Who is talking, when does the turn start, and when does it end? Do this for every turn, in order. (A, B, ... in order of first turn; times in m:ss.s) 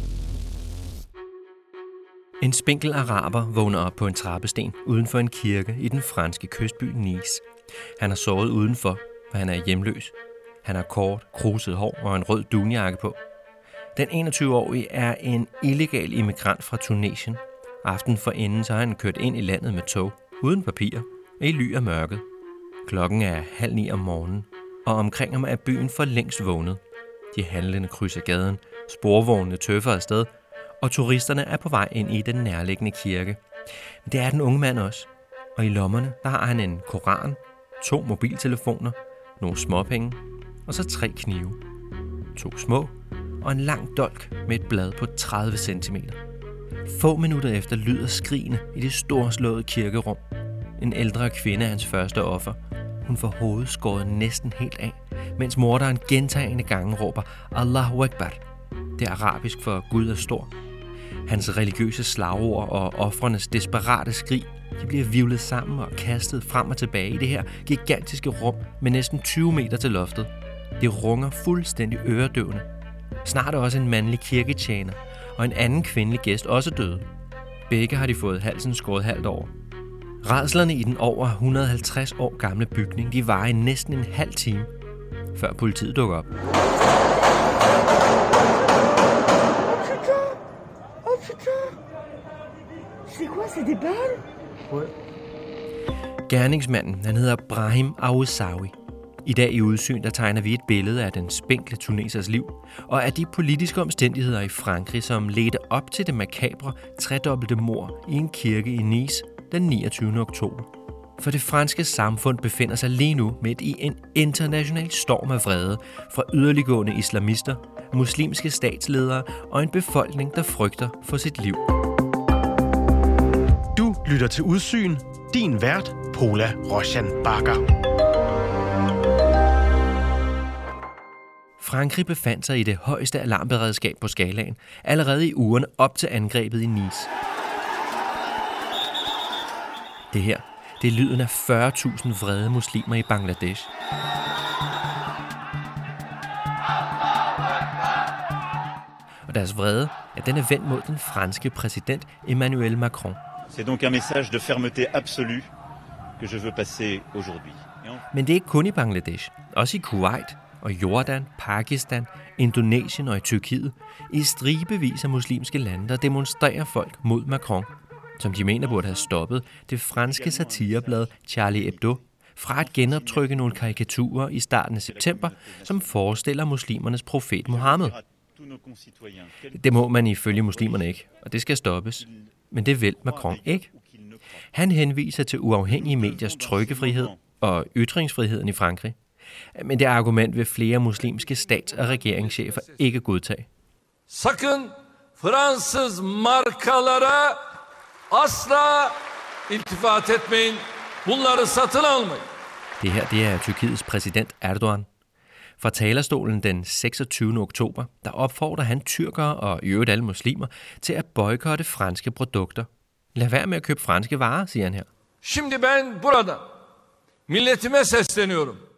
0:02.4-0:07.4 A
0:08.0-0:13.2 A
0:13.9-0:22.2 A
0:22.8-0:26.8 A
0:27.3-0:33.4 A
0:34.0-0:41.6 A
0:42.3-0:46.2 A
0:46.8-0:50.2 A
0:50.8-0:58.4 A
0:59.0-1:00.5 A
1:01.2-1:12.7 A
1:13.2-1:17.0 A
1:17.7-1:19.5 A
1:20.2-1:24.7 A
1:25.3-1:26.3 A
1:29.7-1:30.4 B
1:31.0-1:31.7 B
1:33.1-1:34.9 B
1:36.3-1:50.7 A
1:51.2-2:01.6 A
2:03.7-2:07.6 C
2:11.6-2:17.1 A
2:20.1-2:23.7 A
2:29.3-2:33.2 A
2:33.5-2:35.5 D
2:36.2-2:38.0 D
2:38.1-2:58.0 A
2:48.7-2:49.0 D
2:50.0-2:51.8 D
2:52.7-2:53.6 D
2:54.9-2:56.0 D
2:57.4-3:00.8 D
2:59.5-3:03.7 A
3:03.0-3:04.2 D
3:04.5-3:09.0 A
3:05.7-3:07.2 D
3:09.5-3:13.5 A
3:14.1-3:17.4 E
3:18.1-3:22.3 E
3:22.8-3:24.9 A
3:25.6-3:34.9 A
3:35.2-3:36.4 E
3:37.3-3:38.6 E